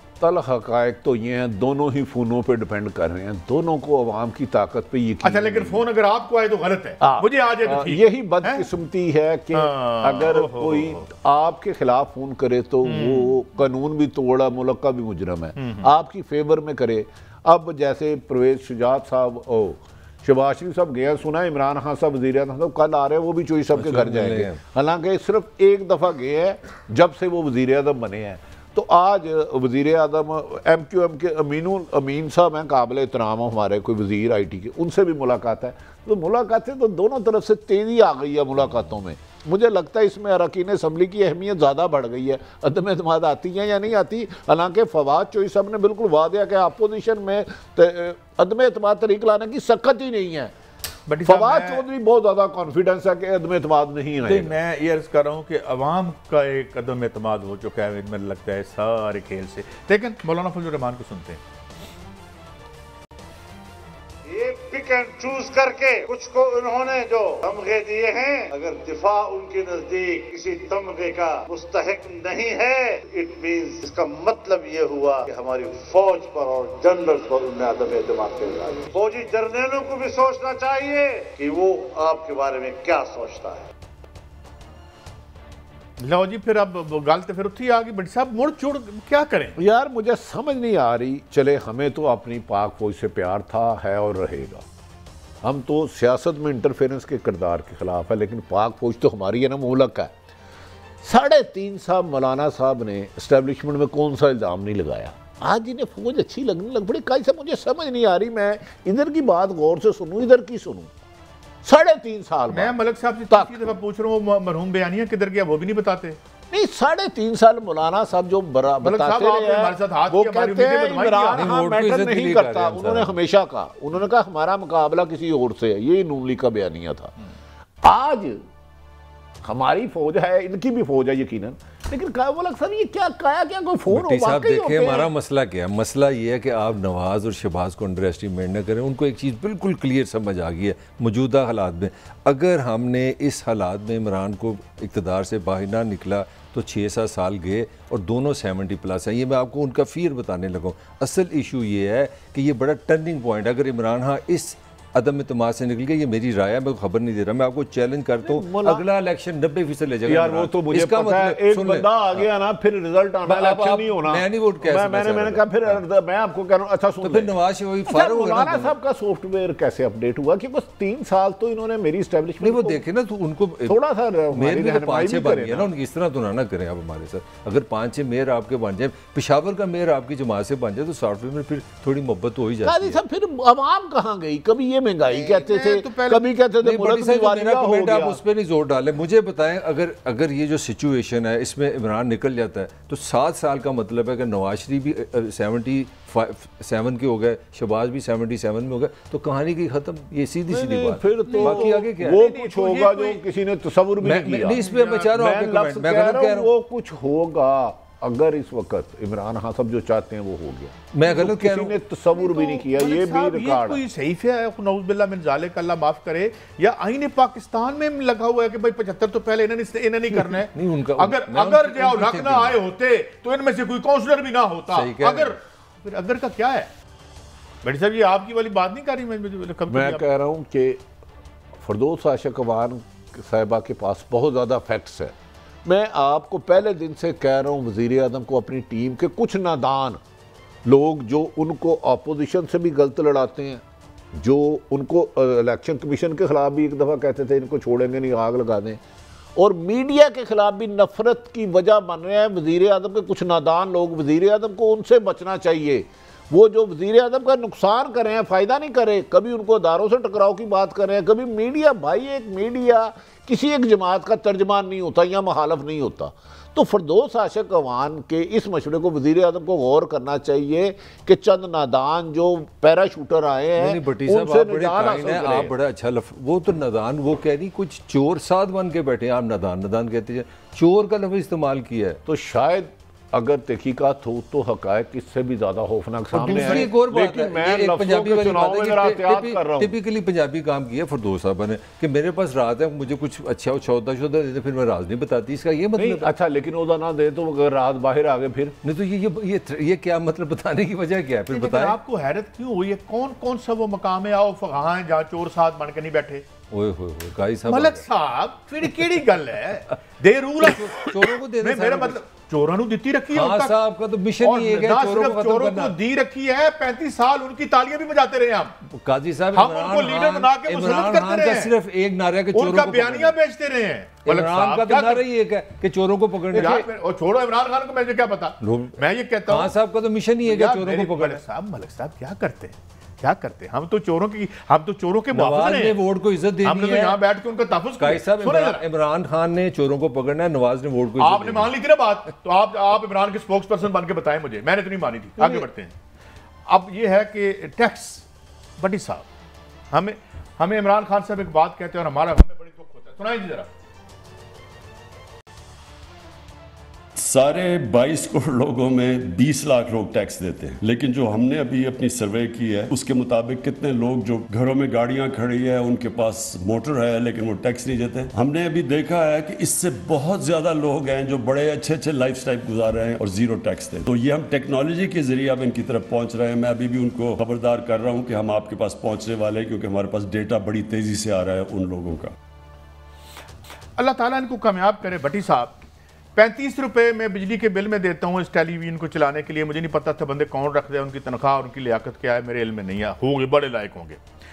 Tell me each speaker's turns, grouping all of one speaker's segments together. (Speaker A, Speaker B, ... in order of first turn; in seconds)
Speaker A: 0.2-5.8, 7.0-50.5, 51.2-54.5, 89.6-94.6, 95.4-100.1, 101.0-110.9, 111.6-112.7, 113.3-113.8, 116.5-127.1, 127.8-128.4, 129.4-135.1, 158.2-158.8, 160.1-167.3, 167.9-172.8, 173.7-175.7, 182.6-188.2, 200.5-213.8, 229.7-230.8, 231.6-240.0, 240.6-248.8, 249.3-275.5, 282.1-289.7, 295.8-298.6
Speaker B: 5.2-8.7, 9.5-11.0, 12.8-13.4, 15.6-15.9, 51.1-51.8, 54.2-61.4, 86.0-89.6, 112.5-116.2, 118.8-121.5, 185.1-186.2, 201.2-203.2, 204.5-205.1, 212.1-226.7, 227.6-230.0, 301.3-306.2, 307.5-313.5, 314.2-318.6, 319.3-321.5, 322.3-325.0, 326.3-329.5, 330.2-335.8, 336.4-338.6, 341.0-345.7, 346.5-348.1, 348.6-349.0, 349.7-353.5, 383.8-385.6, 386.1-394.0
Speaker C: 23.7-24.6, 121.3-123.2, 133.9-162.3, 163.2-165.8, 167.0-168.7, 172.4-173.8, 174.3-183.0, 186.6-202.2, 204.0-206.5, 210.9-211.8, 220.1-222.6, 224.7-225.3, 273.6-282.0, 286.1-296.1, 298.6-301.8, 306.5-307.8, 310.4-312.0, 313.1-315.7, 318.7-323.1, 324.1-326.7, 328.4-328.8, 329.3-331.2, 335.1-337.0, 337.8-341.5, 345.2-345.4
Speaker D: 64.3-83.7
Speaker E: 356.9-382.1